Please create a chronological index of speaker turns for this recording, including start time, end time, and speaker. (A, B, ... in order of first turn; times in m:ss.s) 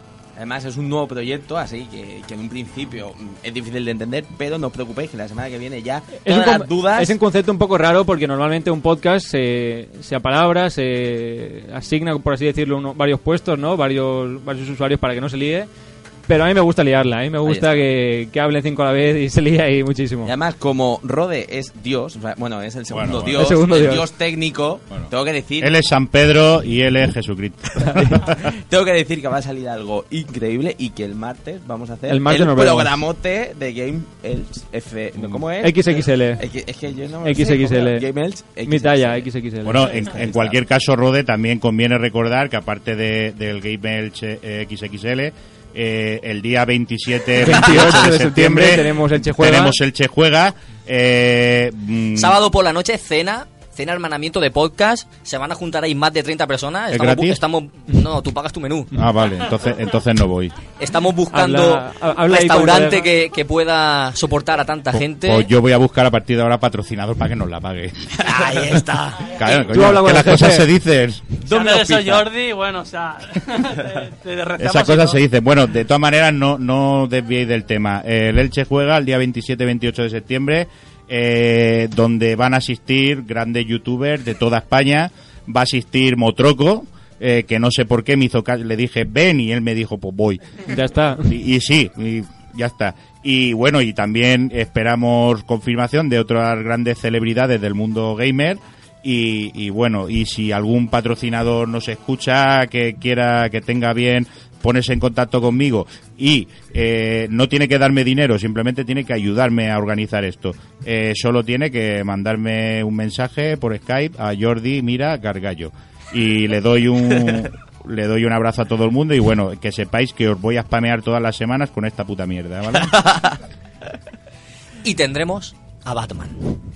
0:00.4-0:07.2 A
0:06.2-0:15.7 B
0:16.3-0:20.3 B
0:17.4-0:17.7 A
0:20.2-0:25.8 A
0:22.9-0:23.5 C
0:23.3-0:24.1 B
0:25.6-0:28.3 C
0:27.8-0:28.3 B
0:28.7-0:39.3 A
0:32.1-0:33.0 B
0:35.6-0:36.4 B
0:37.2-0:38.0 B
0:38.6-0:39.9 B
0:39.6-0:52.4 C
0:39.9-0:40.6 A
0:47.4-0:49.8 B
0:52.2-0:58.9 D
0:56.9-0:57.4 C
0:58.9-1:00.6 C
1:00.8-1:05.5 D
1:01.3-1:03.1 B
1:04.9-1:08.2 C
1:08.2-1:09.6 D
1:09.3-1:11.3 C
1:09.7-1:10.7 B
1:11.4-1:15.2 E
1:14.6-1:30.5 C
1:30.7-1:31.3 B
1:31.2-2:03.3 C
2:04.8-2:06.6 D